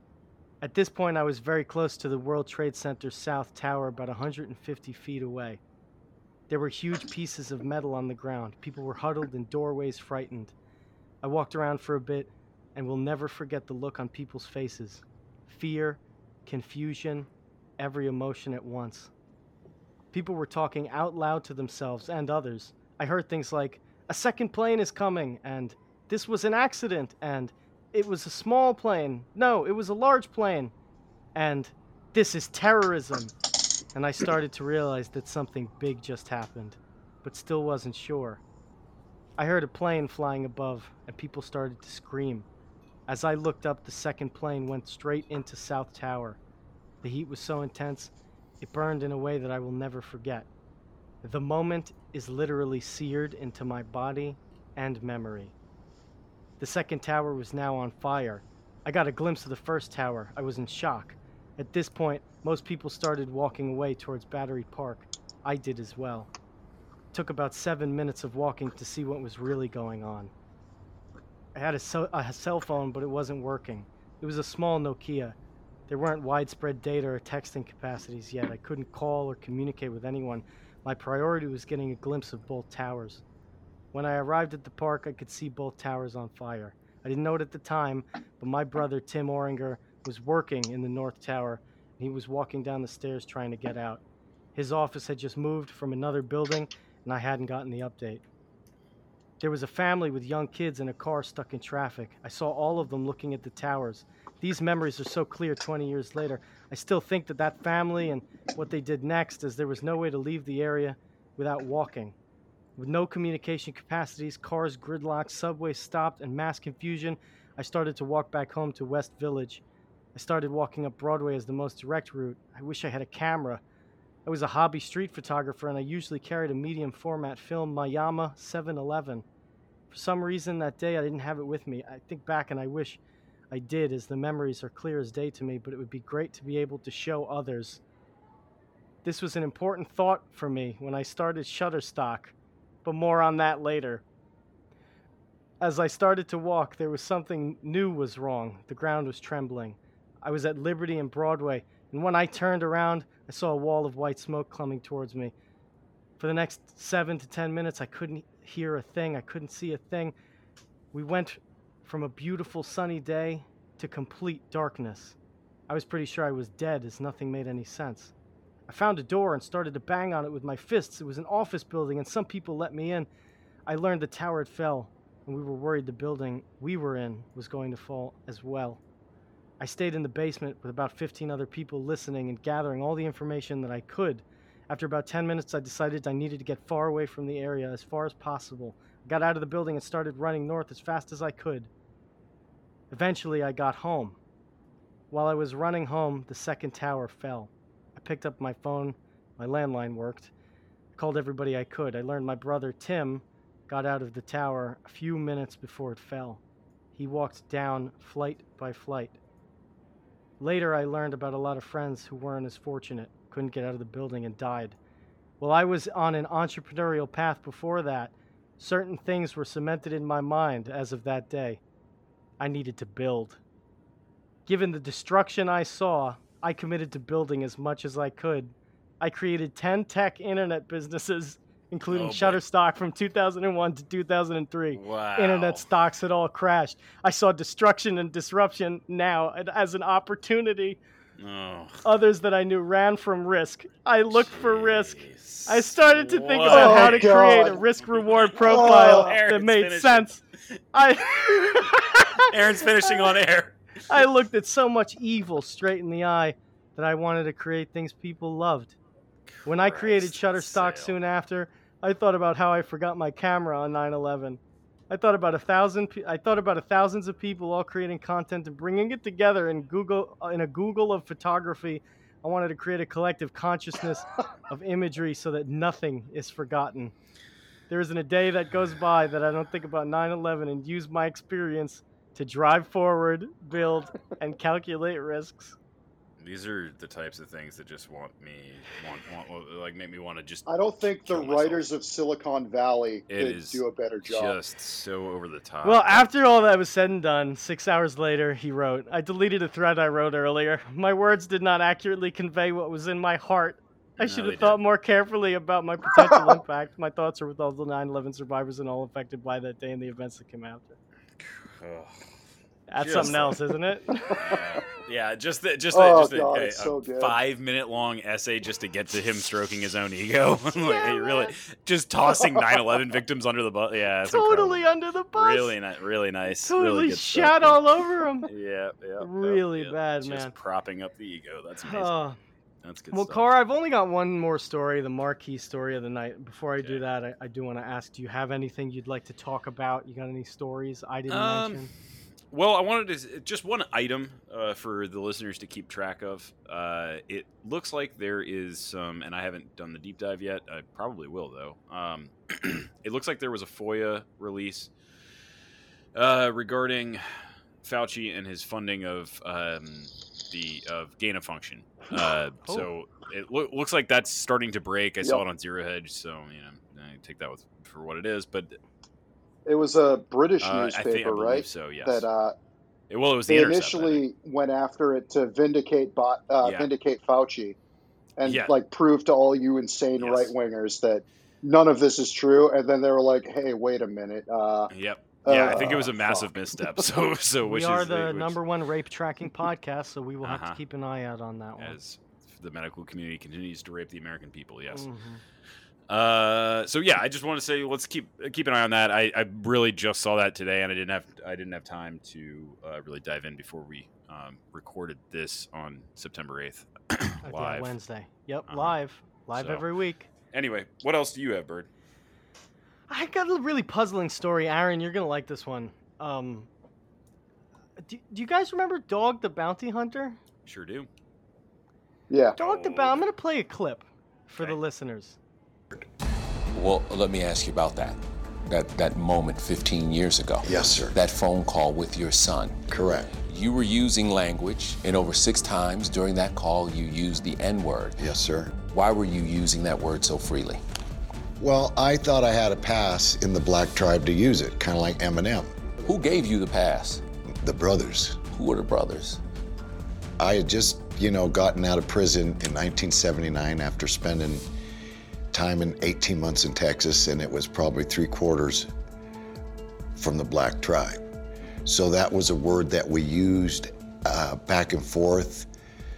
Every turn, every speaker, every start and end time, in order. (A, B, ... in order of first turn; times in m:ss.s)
0:00.6-0:05.6 A
0:06.5-0:10.5 A
0:11.2-0:17.3 A
0:17.8-0:19.1 A
0:20.1-0:30.7 A
0:31.4-0:33.3 A
0:34.0-0:38.4 A
0:39.4-0:42.5 A
0:43.1-0:46.4 A
0:47.0-0:50.5 A
0:51.2-0:55.5 A
0:56.6-1:06.3 A
1:07.1-1:10.3 A
1:11.6-1:15.4 A
1:15.9-1:23.2 A
1:23.9-1:34.0 A
1:34.6-1:38.2 A
1:39.4-1:52.2 A
1:52.8-1:59.6 A
2:00.2-2:03.6 A
2:04.3-2:09.2 A
2:09.9-2:17.8 A
2:19.0-2:24.0 A
2:25.6-2:35.3 A
2:36.2-2:40.1 A
2:40.9-2:45.2 A
2:45.7-2:48.1 A
2:48.7-2:53.1 A
2:53.7-2:58.8 A
2:59.6-3:11.7 A
3:12.9-3:14.2 A
3:15.1-3:20.3 A
3:21.0-3:26.4 A
3:27.0-3:29.2 A
3:30.4-3:34.8 A
3:35.4-3:41.6 A
3:42.4-3:43.4 A
3:44.5-4:00.8 A
3:51.9-3:52.4 B
3:54.7-3:55.7 B
4:01.2-4:01.8 B
4:01.8-4:10.2 A
4:04.1-4:10.6 B
4:06.5-4:07.6 C
4:08.4-4:09.2 C
4:10.7-4:13.0 A
4:12.2-4:14.0 B
4:13.9-4:18.8 A
4:19.3-4:21.0 B
4:19.5-4:36.9 A
4:37.7-4:45.6 A
4:46.2-4:51.7 B
4:50.5-4:54.4 C
4:53.1-4:56.0 B
4:55.6-5:10.8 A
5:04.0-5:04.6 B
5:06.0-5:06.4 C
5:11.2-5:12.0 B
5:12.7-5:14.2 A
5:12.8-5:13.4 B
5:13.0-5:13.3 C
5:14.2-5:27.6 B
5:15.7-5:17.2 C
5:20.5-5:21.4 A
5:24.1-5:25.6 A
5:26.4-5:28.3 A
5:28.2-5:31.9 B
5:29.0-5:30.3 A
5:31.6-5:32.2 A
5:32.6-5:33.3 B
5:32.9-5:41.7 A
5:41.1-5:41.7 B
5:42.3-5:54.7 B
5:55.9-6:08.5 B
6:09.5-6:12.3 C
6:10.4-6:12.0 B
6:12.9-6:14.0 B
6:13.3-6:17.6 C
6:16.4-6:16.7 B
6:18.2-6:24.7 C
6:18.2-6:18.5 B
6:20.0-6:20.3 B
6:24.7-6:28.4 B
6:25.2-6:26.8 C
6:27.4-6:31.8 A
6:30.2-6:30.6 B
6:31.6-6:34.9 B
6:34.7-6:35.2 A
6:35.9-6:47.7 B
6:47.2-6:50.1 A
6:48.5-6:48.8 B
6:49.4-6:49.7 B
6:50.3-6:51.7 B
6:52.9-6:56.5 A
6:57.8-7:00.2 A
7:00.5-7:00.9 B
7:02.1-7:02.4 C
7:02.4-7:03.0 B
7:02.4-7:05.2 A
7:06.6-7:12.6 D
7:10.4-7:11.0 E
7:12.7-7:13.2 E
7:13.2-7:20.6 D
7:18.0-7:18.6 E
7:21.4-7:25.5 E
7:25.8-7:27.0 D
7:27.4-7:28.2 E
7:28.2-7:29.2 D
7:30.2-7:34.4 E
7:35.3-7:38.7 E
7:40.0-7:41.0 E
7:41.7-7:45.5 E